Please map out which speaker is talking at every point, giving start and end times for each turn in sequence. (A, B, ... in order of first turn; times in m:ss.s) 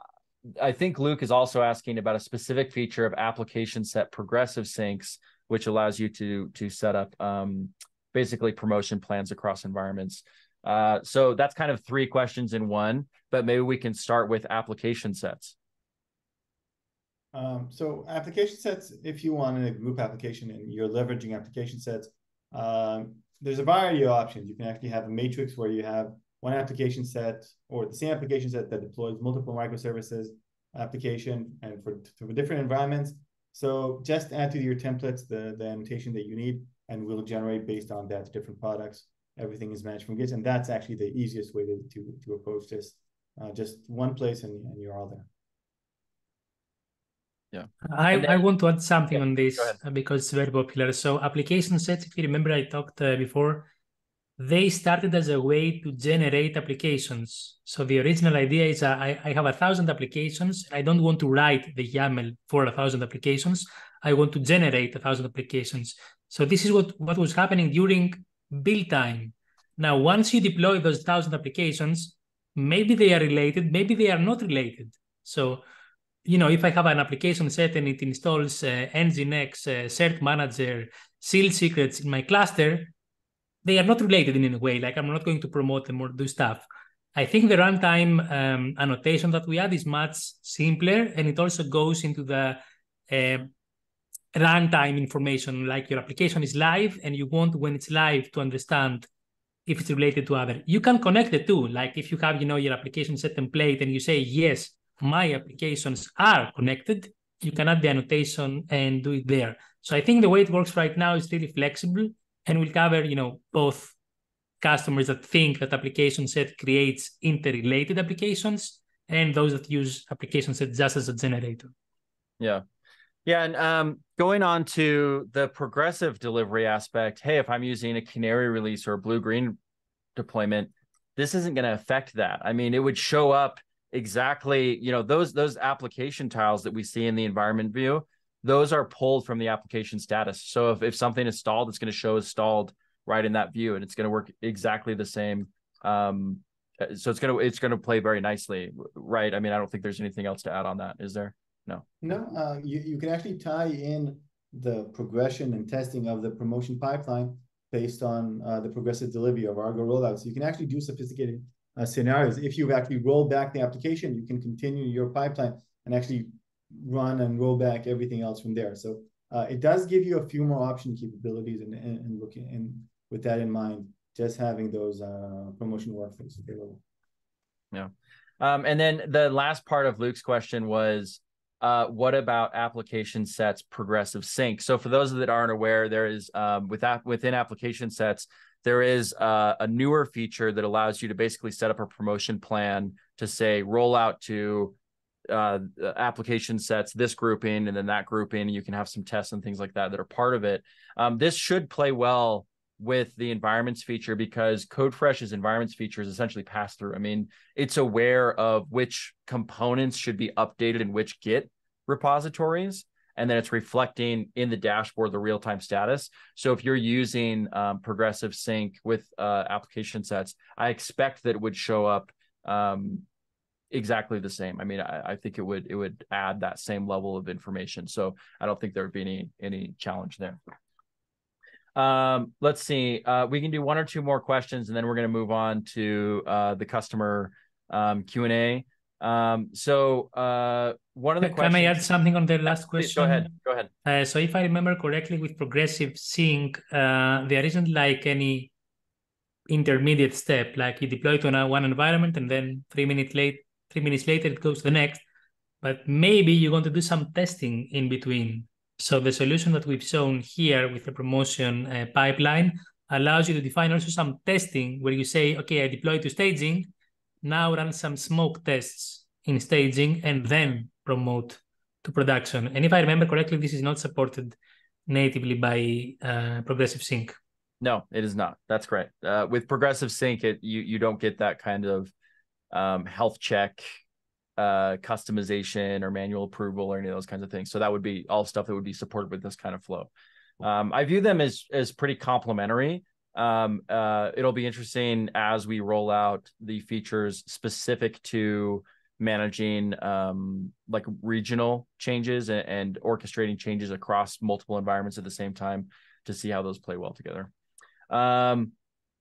0:00.6-0:15.5 A
0:17.3-0:45.3 B
0:47.5-0:48.4 A
0:47.8-0:53.7 C
0:49.1-0:49.8 A
0:54.4-1:15.6 C
1:16.2-1:22.9 C
1:23.6-1:26.6 C
1:27.1-1:33.5 C
1:34.3-1:39.1 C
1:39.7-1:53.9 C
1:54.6-2:01.7 C
2:03.2-2:09.6 A
2:10.2-2:31.8 A
2:32.0-2:56.8 B
2:57.7-3:14.7 A
3:15.3-3:43.0 A
3:43.7-3:50.4 A
3:51.8-4:01.8 A
4:01.2-4:03.3 C
4:02.6-4:03.7 A
4:03.8-4:08.5 C
4:09.5-4:15.0 C
4:15.6-4:26.7 C
4:27.2-4:37.1 C
4:37.6-4:41.9 A
4:42.5-4:43.7 A
4:44.4-5:07.3 A
5:07.9-5:08.5 A